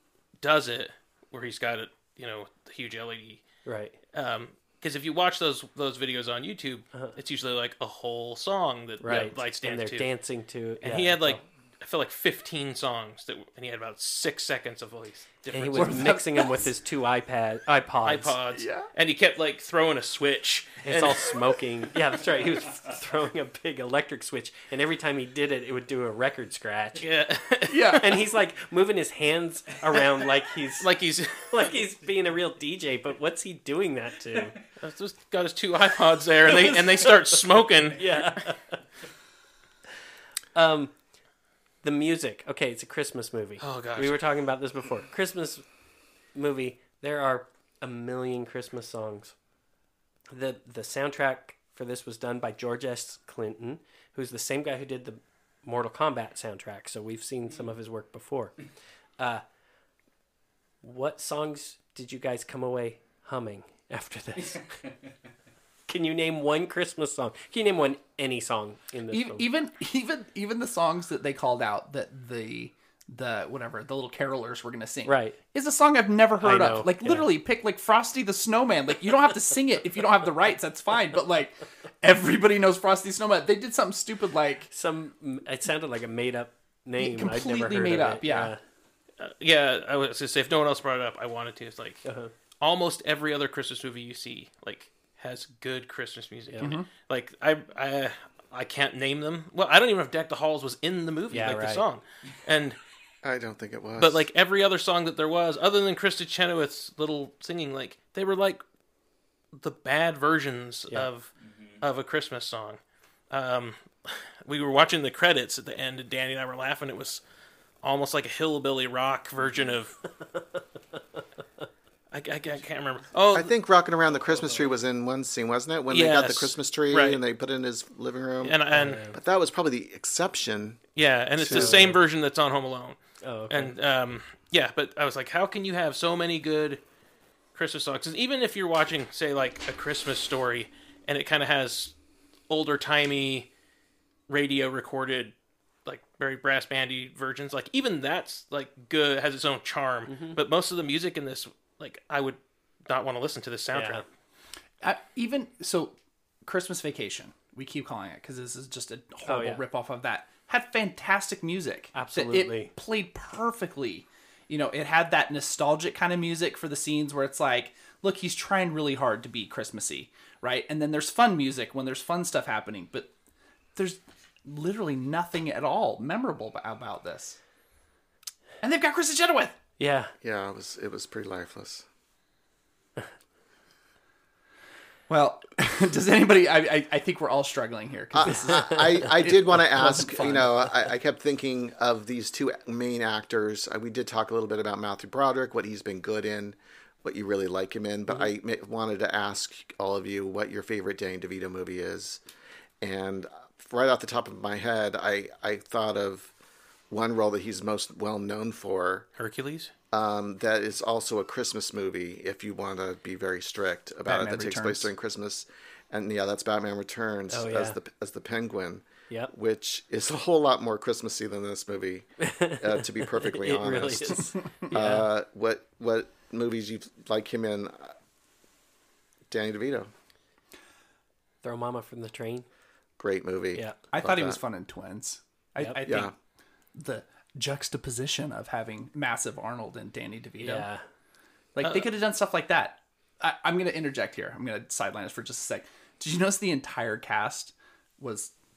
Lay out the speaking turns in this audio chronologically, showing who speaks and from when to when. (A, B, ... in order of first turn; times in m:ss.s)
0:00.4-0:03.4 A
0:03.7-0:04.0 B
0:04.1-0:10.1 A
0:09.0-0:11.4 B
0:10.8-0:16.2 A
0:15.5-0:18.4 B
0:15.8-0:16.6 C
0:18.0-0:21.4 A
0:18.6-0:18.9 C
0:20.8-0:27.1 B
0:27.0-0:28.0 A
0:27.7-0:28.0 C
0:28.0-0:34.6 B
0:30.8-0:31.6 A
0:34.8-0:38.4 A
0:36.5-0:37.4 B
0:37.9-0:38.8 B
0:40.6-0:41.0 B
0:41.8-0:45.6 B
0:43.6-0:44.2 A
0:46.3-0:49.4 B
0:50.3-0:58.6 B
1:00.8-1:04.8 B
1:05.9-1:09.4 B
1:09.1-1:24.7 C
1:15.0-1:15.4 B
1:16.4-1:17.3 B
1:24.7-1:28.6 B
1:27.0-1:28.5 C
1:29.2-1:32.0 A
1:32.0-1:32.3 B
1:32.6-1:42.8 A
1:36.6-1:36.9 C
1:41.3-1:41.8 B
1:43.2-1:44.3 D
1:44.0-1:48.6 A
1:49.6-1:52.8 A
1:53.3-1:57.2 A
1:57.8-2:00.0 A
2:02.1-2:03.5 A
2:03.3-2:10.8 D
2:05.9-2:07.2 A
2:08.4-2:09.0 A
2:08.7-2:09.2 B
2:11.0-2:13.0 A
2:11.4-2:11.9 D
2:11.5-2:12.0 B
2:13.2-2:13.7 B
2:13.5-2:16.8 A
2:17.5-2:21.9 A
2:22.5-2:23.5 A
2:24.3-2:25.3 A
2:25.8-2:34.0 A
2:30.1-2:30.4 B
2:33.7-2:34.0 B
2:34.8-2:53.1 C
2:39.3-2:39.6 B
2:41.9-2:42.7 B
2:53.8-2:57.4 C
2:58.6-2:59.6 C
2:59.8-3:00.1 B
3:00.2-3:01.9 D
3:05.1-3:10.6 C
3:08.1-3:22.2 D
3:22.8-3:26.3 D
3:26.9-3:29.1 D
3:29.2-3:29.7 A
3:29.9-3:47.9 D
3:34.1-3:34.9 C
3:37.3-3:37.8 B
3:42.2-3:45.1 B
3:49.3-3:49.9 D
3:51.4-3:52.5 B
3:53.0-3:54.4 D
3:53.9-3:56.1 C
3:55.8-3:56.1 D
3:56.8-4:00.7 C
4:00.4-4:00.8 B
4:01.6-4:08.3 C
4:01.6-4:01.9 A